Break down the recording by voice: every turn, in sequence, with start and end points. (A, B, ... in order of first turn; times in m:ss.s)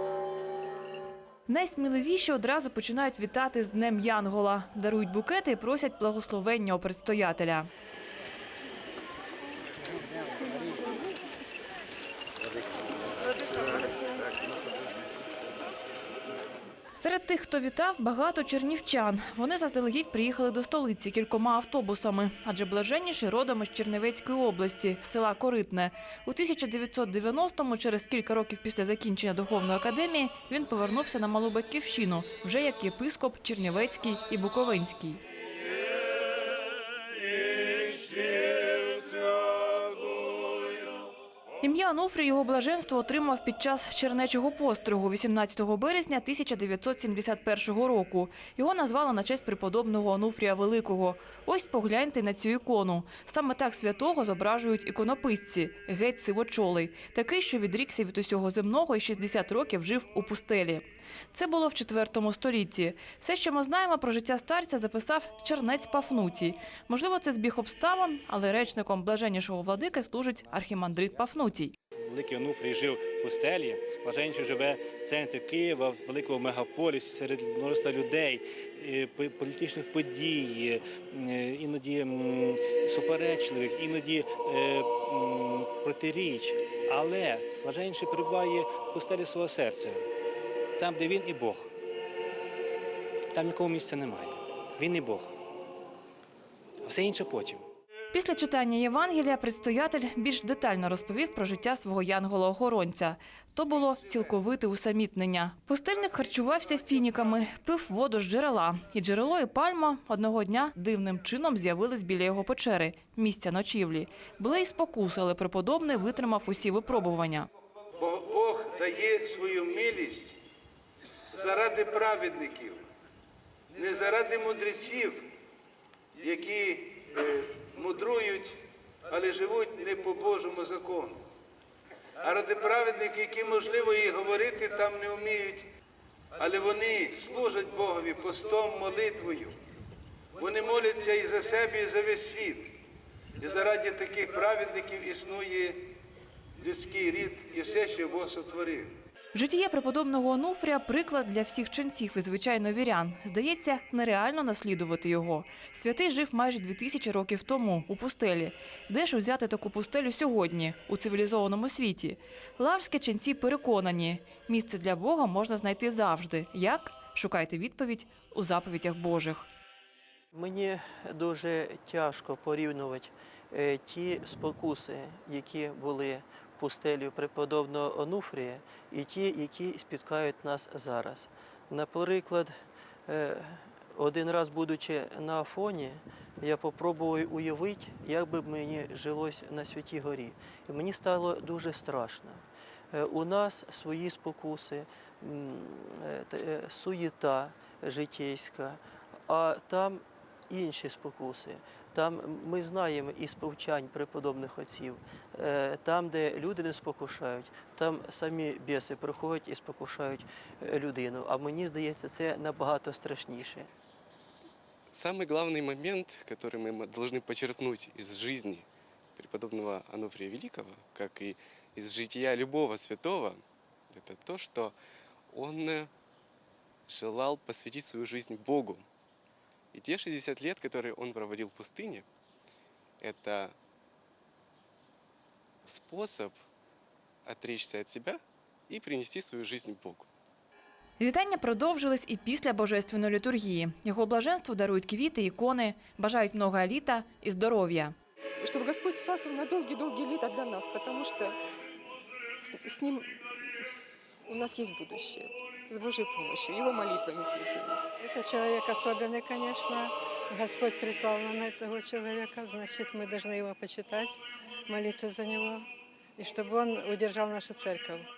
0:01.5-0:07.7 A
0:17.0-0:35.2 A
0:41.6-1:11.7 A
1:12.1-1:30.0 B
1:30.8-1:31.7 B
1:33.3-1:35.3 B
1:36.8-1:37.7 B
1:38.1-1:57.5 A
1:58.0-2:00.4 C
2:01.3-2:02.8 C
2:03.8-2:05.3 C
2:06.2-2:11.2 C
2:12.2-2:15.7 C
2:16.4-2:19.6 C
2:20.4-2:22.7 C
2:23.4-2:25.9 C
2:26.6-2:28.9 C
2:29.3-2:49.5 A
2:50.3-3:02.5 D
3:03.1-3:33.7 D
3:34.9-3:44.8 E
3:45.3-3:45.9 E
3:46.9-3:48.9 E
3:49.7-3:52.1 E
3:53.0-3:53.6 E
3:55.6-3:56.4 E
3:57.2-4:00.1 E
4:01.0-4:08.0 A
4:08.4-4:11.4 F
4:12.4-4:13.2 F
4:14.3-4:17.8 F
4:18.0-4:25.6 G
4:26.2-4:28.0 G